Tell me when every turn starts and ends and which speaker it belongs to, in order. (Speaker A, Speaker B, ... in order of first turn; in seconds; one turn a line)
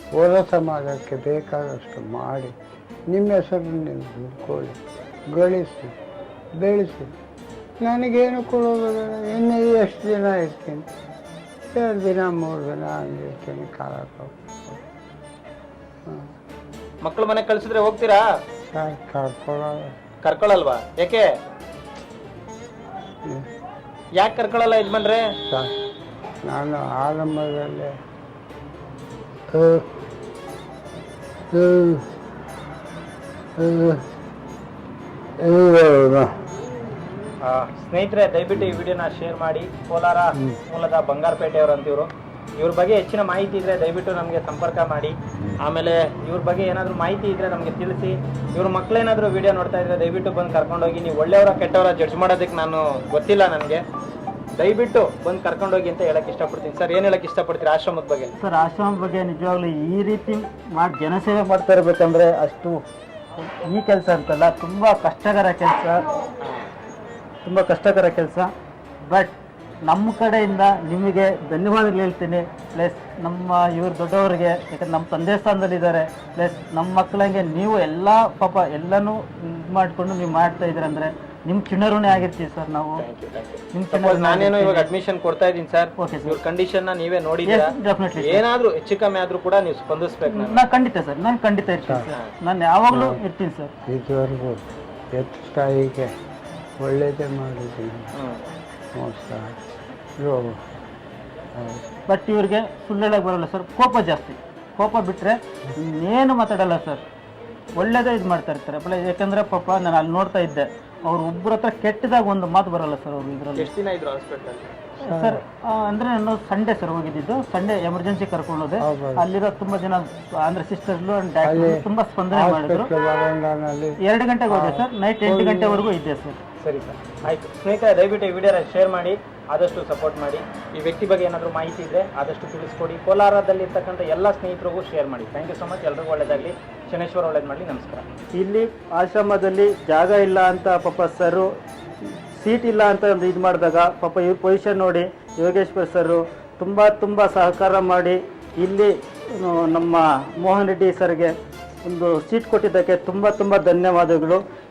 Speaker A: 0.2-2.5
Speaker A: 3.1-4.8
Speaker A: 5.3-5.9
Speaker A: 6.6-7.1
Speaker A: 7.8-10.9
Speaker A: 11.7-14.8
Speaker A: 16.1-16.3
Speaker B: 17.0-18.2
Speaker A: 18.7-19.9
Speaker B: 20.2-21.3
Speaker B: 24.2-25.2
Speaker A: 25.5-25.7
Speaker A: 26.5-27.9
Speaker A: 29.5-29.9
Speaker A: 31.5-32.1
Speaker A: 33.6-34.0
Speaker A: 35.4-36.3
Speaker B: 37.4-53.8
Speaker B: 54.6-58.4
Speaker C: 58.4-62.8
Speaker C: 63.4-66.0
Speaker B: 66.4-66.7
Speaker C: 67.4-68.5
Speaker C: 69.0-83.0
Speaker B: 83.0-90.6
Speaker C: 83.7-84.9
Speaker C: 86.0-86.4
Speaker C: 87.5-88.4
Speaker C: 90.2-93.7
Speaker A: 92.9-93.2
Speaker A: 93.9-96.1
Speaker A: 96.8-98.1
Speaker B: 98.2-98.4
Speaker A: 99.0-99.6
Speaker A: 100.2-100.6
Speaker A: 101.6-101.8
Speaker C: 102.1-107.0
Speaker C: 107.8-113.7
Speaker B: 113.6-114.7
Speaker C: 115.0-122.9
Speaker A: 115.0-115.4
Speaker A: 118.8-119.3
Speaker A: 121.4-125.8
Speaker C: 124.0-126.4
Speaker B: 126.6-138.1
Speaker C: 138.3-141.5
Speaker C: 142.0-154.4